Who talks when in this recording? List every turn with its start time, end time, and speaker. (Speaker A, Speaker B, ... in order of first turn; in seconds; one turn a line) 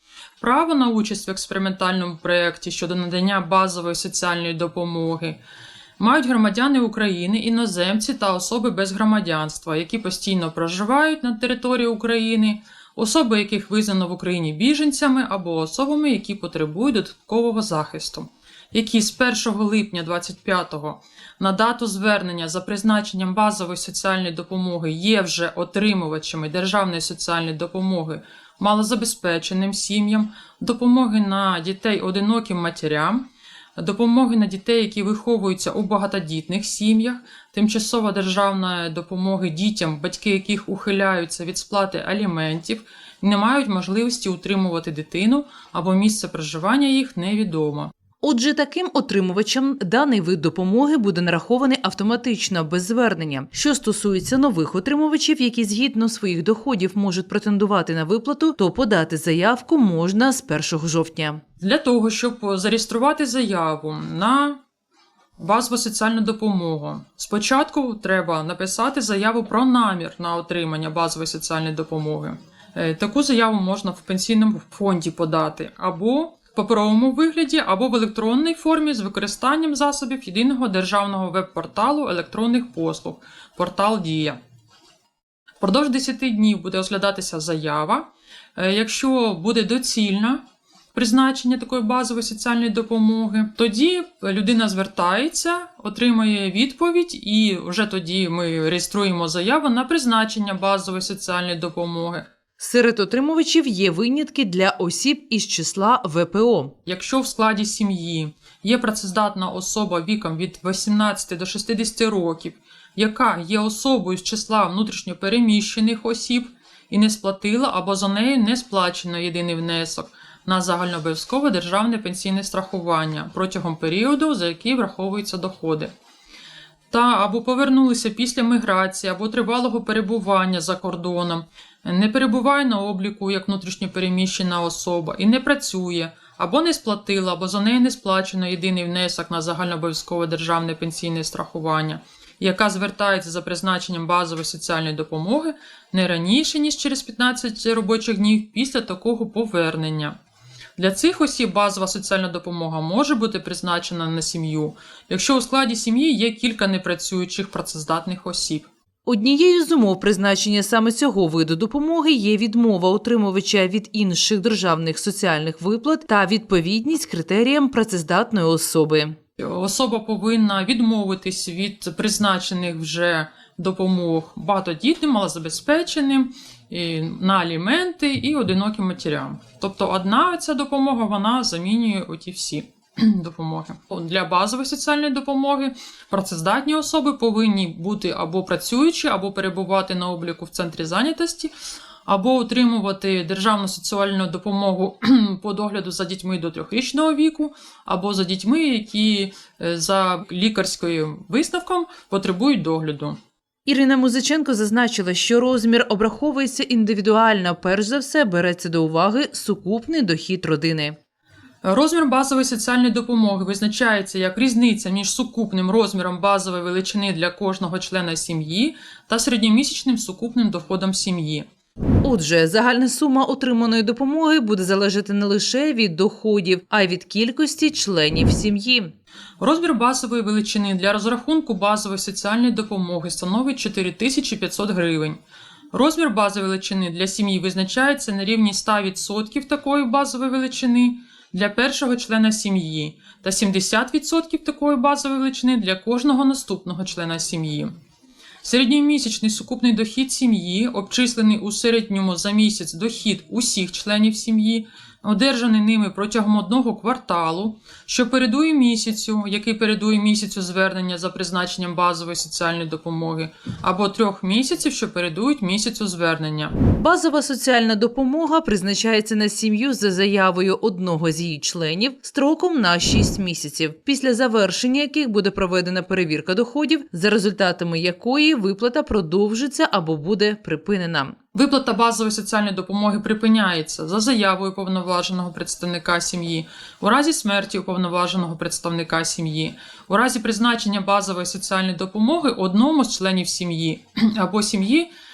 Speaker A: 0.4-5.4
Speaker A: 6.0-47.9
Speaker B: 48.2-61.4
Speaker A: 61.6-64.6
Speaker A: 65.4-84.4
Speaker A: 85.6-90.4
Speaker A: 90.9-102.3
Speaker B: 102.6-106.7
Speaker A: 106.8-125.9
Speaker A: 126.9-150.2
Speaker A: 150.8-158.7
Speaker B: 159.1-169.2
Speaker A: 169.4-191.5
Speaker A: 192.1-203.2
Speaker B: 203.7-210.9
Speaker A: 211.6-221.4
Speaker B: 222.0-228.9
Speaker A: 229.4-235.2
Speaker A: 235.7-247.7
Speaker A: 248.4-266.6
Speaker B: 266.7-281.2
Speaker A: 281.3-294.9